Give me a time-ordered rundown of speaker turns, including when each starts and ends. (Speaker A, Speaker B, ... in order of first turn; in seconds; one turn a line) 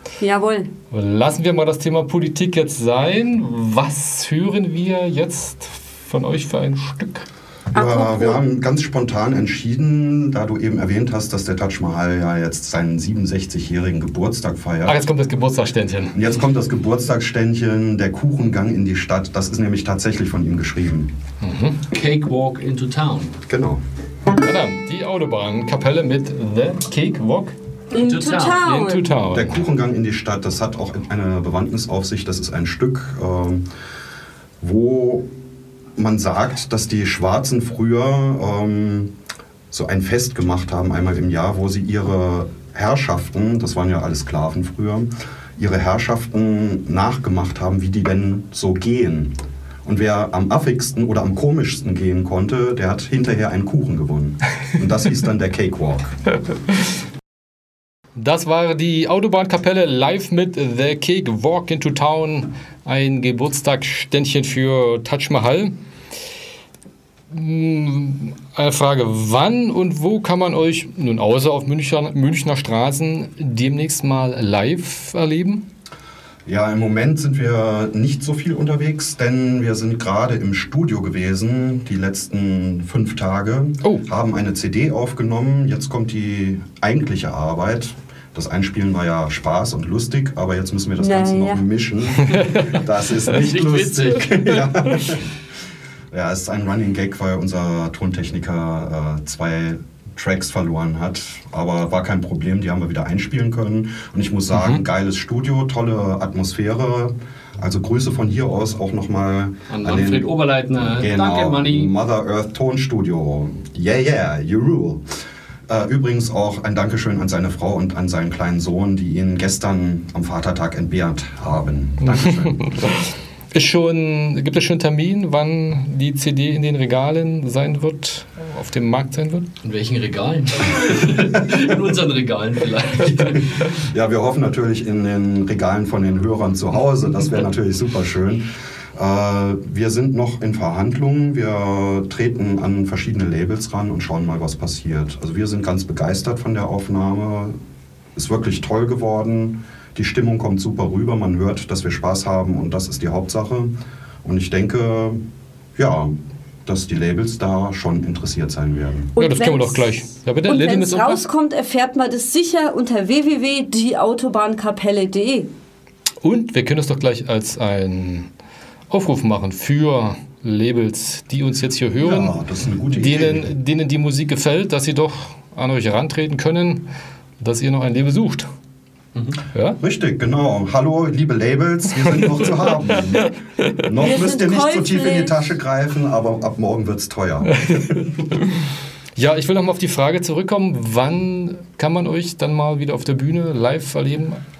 Speaker A: 0.2-0.7
Speaker B: 0.9-7.3
Speaker A: 7.7-8.4
Speaker C: 7.7-15.1
Speaker B: 14.8-16.2
Speaker C: 16.1-21.1
Speaker B: 21.4-21.8
Speaker D: 21.9-23.4
Speaker C: 23.5-23.8
Speaker B: 24.4-27.6
Speaker A: 27.9-29.1
Speaker D: 27.9-28.7
Speaker B: 28.6-29.6
Speaker C: 29.3-33.7
Speaker C: 34.6-35.3
Speaker C: 36.0-39.1
Speaker C: 39.7-56.2
Speaker B: 58.2-65.7
Speaker B: 67.3-75.7
Speaker C: 76.5-95.3
Speaker A: 91.0-91.6
Speaker D: 92.6-94.6
Speaker C: 96.1-115.0
Speaker B: 104.5-104.8
Speaker D: 109.7-111.9
Speaker C: 115.7-123.0
Speaker B: 122.0-129.5
Speaker D: 129.6-133.8
Speaker C: 133.1-147.6
Speaker C: 148.2-155.2
Speaker C: 155.8-156.1
Speaker C: 156.7-159.1
Speaker A: 159.2-165.5
Speaker B: 159.2-161.2
Speaker B: 166.2-168.3
Speaker B: 168.9-172.4
Speaker C: 172.0-173.5
Speaker B: 172.9-176.9
Speaker B: 177.4-178.5
Speaker B: 179.5-179.8
Speaker C: 179.8-187.6
Speaker A: 184.0-185.4
Speaker B: 187.6-188.1
Speaker B: 189.2-194.4